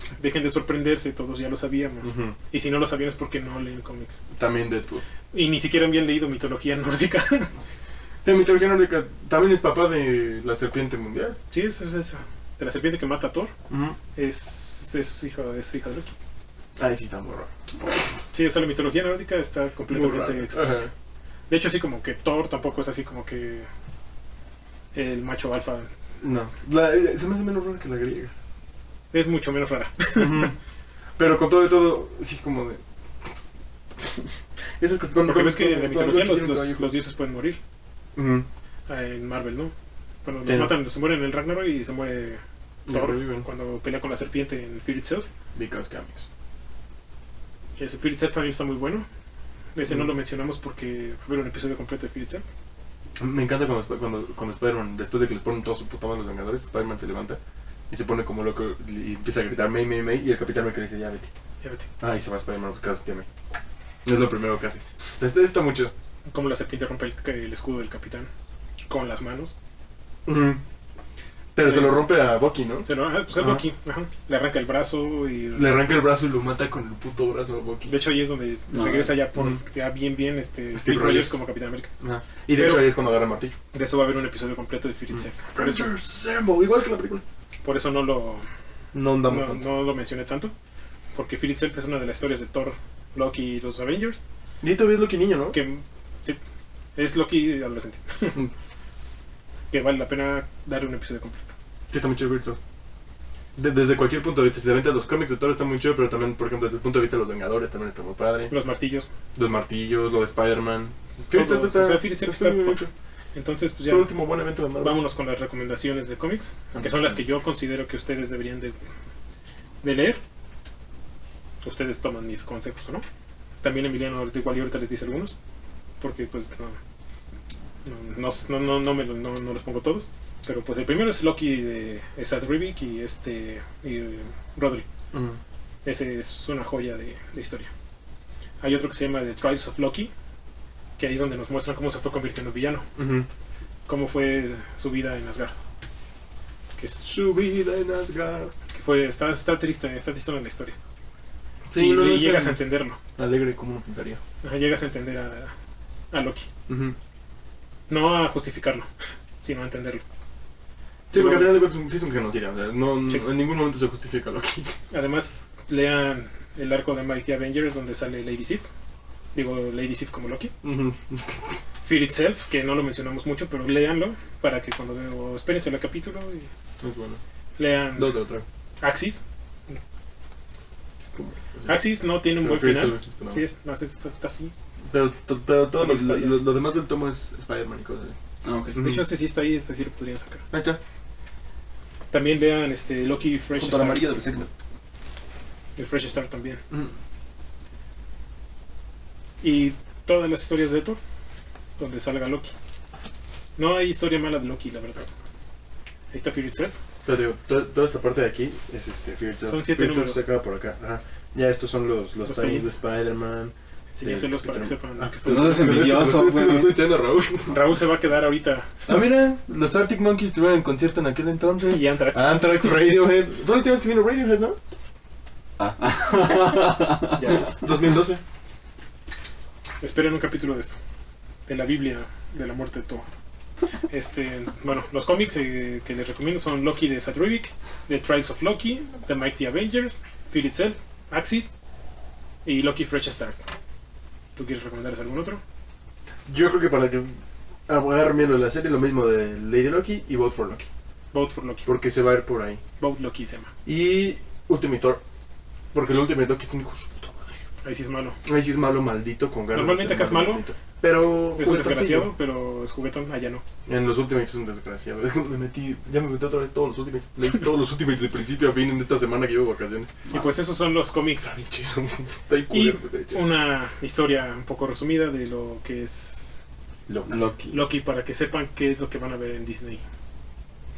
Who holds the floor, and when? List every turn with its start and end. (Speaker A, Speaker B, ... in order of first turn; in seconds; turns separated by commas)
Speaker A: 0.2-4.2, Speaker B: 2.0-2.4, Speaker B: 4.3-5.0, Speaker A: 5.3-7.6, Speaker B: 8.2-11.4, Speaker A: 11.5-13.5, Speaker B: 13.7-14.0, Speaker A: 14.2-16.1, Speaker B: 16.8-17.5, Speaker A: 18.3-20.8, Speaker B: 19.9-20.9, Speaker A: 21.5-23.7, Speaker A: 24.9-25.9, Speaker B: 26.2-28.3, Speaker A: 29.1-30.5, Speaker B: 30.1-30.6, Speaker B: 31.2-32.8, Speaker B: 34.0-34.2, Speaker B: 34.8-36.9, Speaker A: 35.2-37.6, Speaker B: 38.2-38.5, Speaker A: 38.9-39.7, Speaker A: 40.2-45.3, Speaker B: 40.5-40.8, Speaker B: 42.9-43.5, Speaker B: 45.5-46.3, Speaker A: 47.8-49.1, Speaker A: 49.8-52.5, Speaker B: 53.2-57.4, Speaker B: 57.9-61.3, Speaker A: 61.6-61.9, Speaker B: 62.0-63.3, Speaker B: 64.0-65.9, Speaker A: 66.3-68.3, Speaker A: 68.9-69.5, Speaker B: 70.3-70.6, Speaker B: 71.5-73.7, Speaker A: 71.6-72.0, Speaker A: 72.8-75.9, Speaker B: 75.6-77.9, Speaker A: 77.9-81.9, Speaker C: 78.7-79.2, Speaker B: 80.8-81.3, Speaker B: 82.0-83.5, Speaker A: 82.5-82.9, Speaker A: 83.7-85.9, Speaker B: 85.1-87.2, Speaker A: 87.6-88.5, Speaker B: 88.9-89.6, Speaker A: 89.2-90.5, Speaker A: 91.1-94.2, Speaker B: 94.6-95.6, Speaker A: 95.5-96.4, Speaker A: 97.0-98.4, Speaker A: 99.7-101.5, Speaker B: 101.9-102.6, Speaker B: 103.6-108.5, Speaker A: 108.5-109.1, Speaker B: 109.3-112.9, Speaker A: 111.3-112.8, Speaker A: 113.3-114.1, Speaker B: 113.9-115.0, Speaker A: 114.8-118.8, Speaker B: 116.8-117.1, Speaker A: 119.8-120.2, Speaker A: 121.6-123.0, Speaker A: 123.6-125.4, Speaker A: 126.0-126.8, Speaker A: 127.8-134.9, Speaker B: 135.1-135.4, Speaker A: 135.8-137.7, Speaker A: 138.6-140.1, Speaker A: 141.0-142.9, Speaker B: 143.0-143.3, Speaker A: 143.9-145.6, Speaker A: 146.8-147.1, Speaker B: 147.0-148.5, Speaker A: 148.7-150.8, Speaker B: 151.7-152.6, Speaker A: 151.8-153.0, Speaker B: 153.2-154.2, Speaker A: 154.4-155.5, Speaker A: 156.1-156.5, Speaker B: 156.7-157.0, Speaker A: 157.9-158.9, Speaker A: 159.4-160.1, Speaker B: 161.1-164.8, Speaker A: 161.1-161.6, Speaker A: 164.9-168.7, Speaker A: 169.3-170.5, Speaker B: 170.6-171.6, Speaker A: 171.8-176.5, Speaker B: 176.8-177.2, Speaker A: 177.6-178.2, Speaker B: 178.0-178.4, Speaker A: 178.8-179.2, Speaker B: 181.0-181.8, Speaker A: 181.7-184.5, Speaker B: 182.4-183.4, Speaker B: 184.9-188.2, Speaker A: 185.8-186.4, Speaker C: 188.4-188.8, Speaker B: 188.8-189.0, Speaker A: 188.8-190.5, Speaker B: 190.5-190.8, Speaker A: 192.1-194.1, Speaker B: 193.6-194.5, Speaker A: 195.8-196.6, Speaker A: 199.4-201.0, Speaker A: 201.8-202.5, Speaker A: 203.6-205.1, Speaker A: 206.1-206.7, Speaker B: 207.1-217.6, Speaker A: 209.5-210.2, Speaker A: 212.2-212.8, Speaker A: 213.9-216.1, Speaker C: 215.2-216.8, Speaker A: 217.5-219.0, Speaker B: 218.9-224.6, Speaker A: 221.7-223.0, Speaker C: 225.6-227.4, Speaker A: 227.2-227.7, Speaker B: 227.3-228.2, Speaker A: 229.8-230.8, Speaker A: 231.5-233.1, Speaker A: 233.9-241.5, Speaker A: 242.4-243.4, Speaker A: 244.4-245.4, Speaker B: 246.3-247.2, Speaker B: 247.7-250.7, Speaker A: 251.1-251.7, Speaker B: 251.7-252.6, Speaker A: 252.8-253.5, Speaker B: 253.7-255.0, Speaker B: 255.7-257.4, Speaker A: 257.6-258.2, Speaker B: 258.2-262.1, Speaker A: 259.5-260.4, Speaker A: 261.4-263.4, Speaker B: 263.7-270.0, Speaker A: 270.1-271.3, Speaker B: 271.2-273.2, Speaker A: 272.5-276.4, Speaker B: 276.9-277.2, Speaker C: 277.1-277.5, Speaker A: 277.5-279.8